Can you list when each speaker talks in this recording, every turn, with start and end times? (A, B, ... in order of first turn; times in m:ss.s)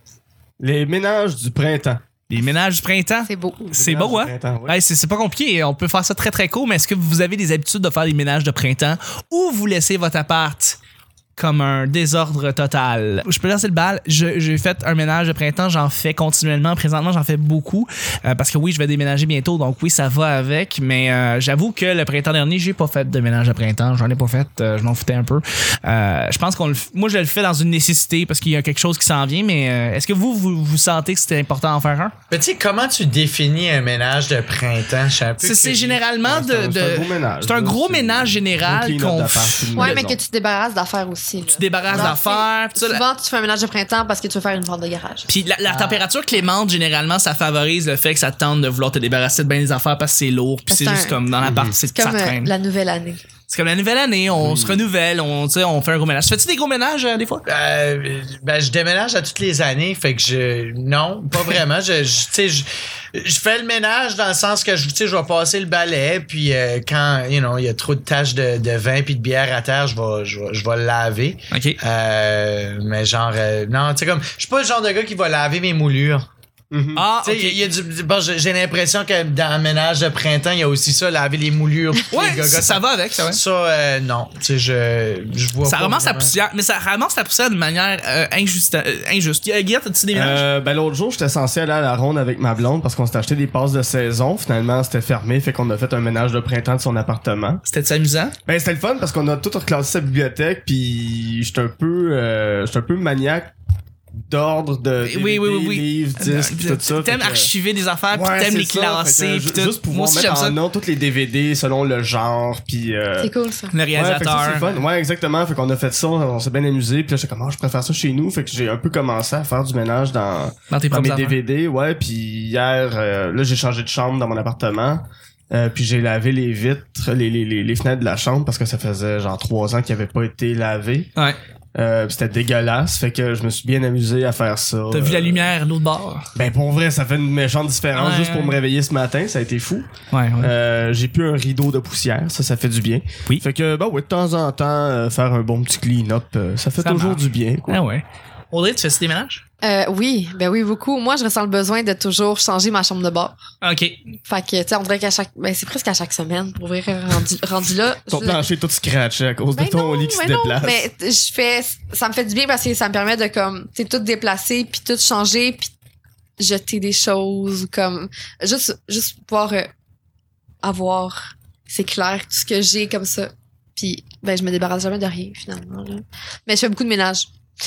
0:00.6-0:02.0 A
0:02.3-0:10.8 B
0:03.2-0:03.7 C
0:03.7-0:04.8 A
0:11.4-0:32.1 B
0:32.3-0:36.0 D
0:35.4-0:40.0 B
0:36.2-0:40.2 A
0:39.8-0:45.3 C
0:41.5-0:43.0 B
0:45.3-0:52.5 B
0:45.7-0:46.0 D
0:50.7-0:51.2 C
0:51.4-0:51.8 A
0:51.9-0:53.2 C
0:53.5-0:57.4 B
0:54.4-0:54.8 A
0:57.4-1:16.3 D
1:11.5-1:11.8 B
1:16.7-1:17.0 A
1:17.0-1:17.6 B
1:17.2-1:26.3 D
1:22.1-1:23.4 B
1:25.6-1:30.4 B
1:30.1-1:37.6 A
1:37.7-1:38.3 B
1:38.4-1:43.5 A
1:44.2-1:47.5 A
1:45.0-1:50.6 B
1:48.1-1:53.3 A
1:53.2-1:53.7 C
1:53.7-1:54.8 B
1:53.9-2:11.1 A
2:00.7-2:01.4 B
2:11.7-2:15.5 A
2:14.9-2:16.3 B
2:16.3-2:27.8 A
2:17.9-2:18.6 B
2:20.1-2:20.5 B
2:26.8-2:29.4 B
2:29.6-2:33.4 C
2:33.6-2:34.0 B
2:34.3-2:38.4 C
2:38.1-2:40.8 A
2:39.6-2:45.7 C
2:46.4-2:49.7 C
2:50.6-2:57.3 C